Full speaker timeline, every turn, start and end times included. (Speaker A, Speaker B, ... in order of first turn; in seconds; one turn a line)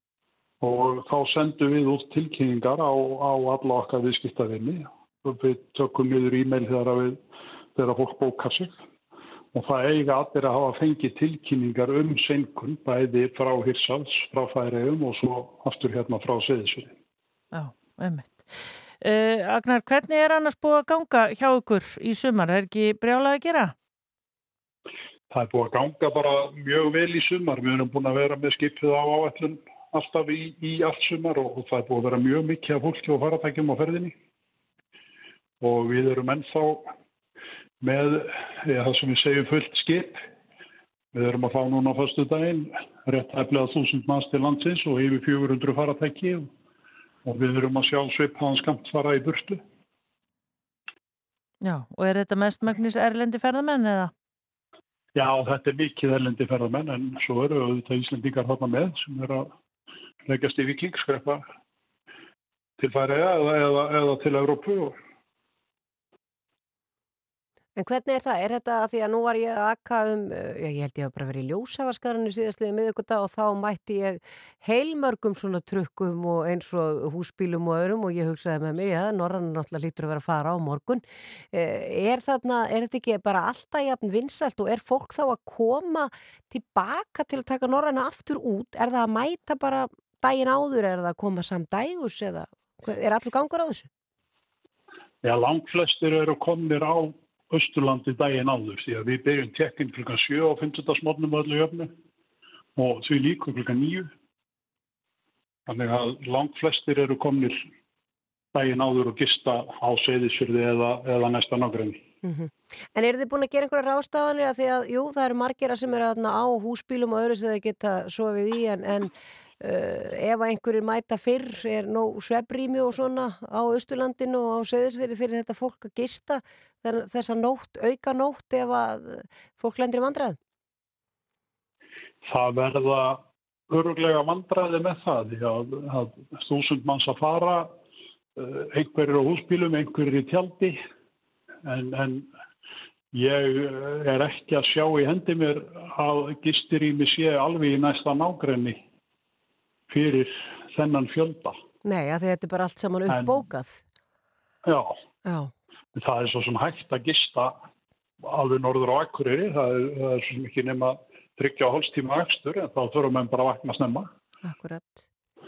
Speaker A: 0.6-7.2
Speaker A: 7.8-8.8
Speaker A: 9.5-16.9
Speaker B: 17.5-23.7
Speaker A: 25.3-34.1
Speaker A: 35.6-36.9
Speaker A: 37.8-40.2
Speaker A: 41.1-46.5
Speaker A: 47.2-49.6
Speaker B: 51.6-54.1
Speaker A: 55.2-59.5
Speaker A: 60.3-61.5
Speaker A: 62.8-65.0
Speaker C: 67.8-93.9
Speaker A: 95.2-101.9
Speaker A: 102.8-104.1
Speaker A: 105.7-107.6
Speaker A: 108.5-112.0
Speaker C: 112.2-130.4
Speaker A: 132.3-137.7
Speaker A: 138.4-140.8
Speaker A: 141.7-142.3
Speaker A: 143.1-148.8
Speaker A: 149.9-151.6
Speaker C: 151.8-153.8
Speaker A: 153.1-153.4
Speaker A: 154.7-154.9
Speaker C: 155.2-155.5
Speaker A: 155.9-157.6
Speaker A: 158.2-164.1
Speaker C: 164.4-165.1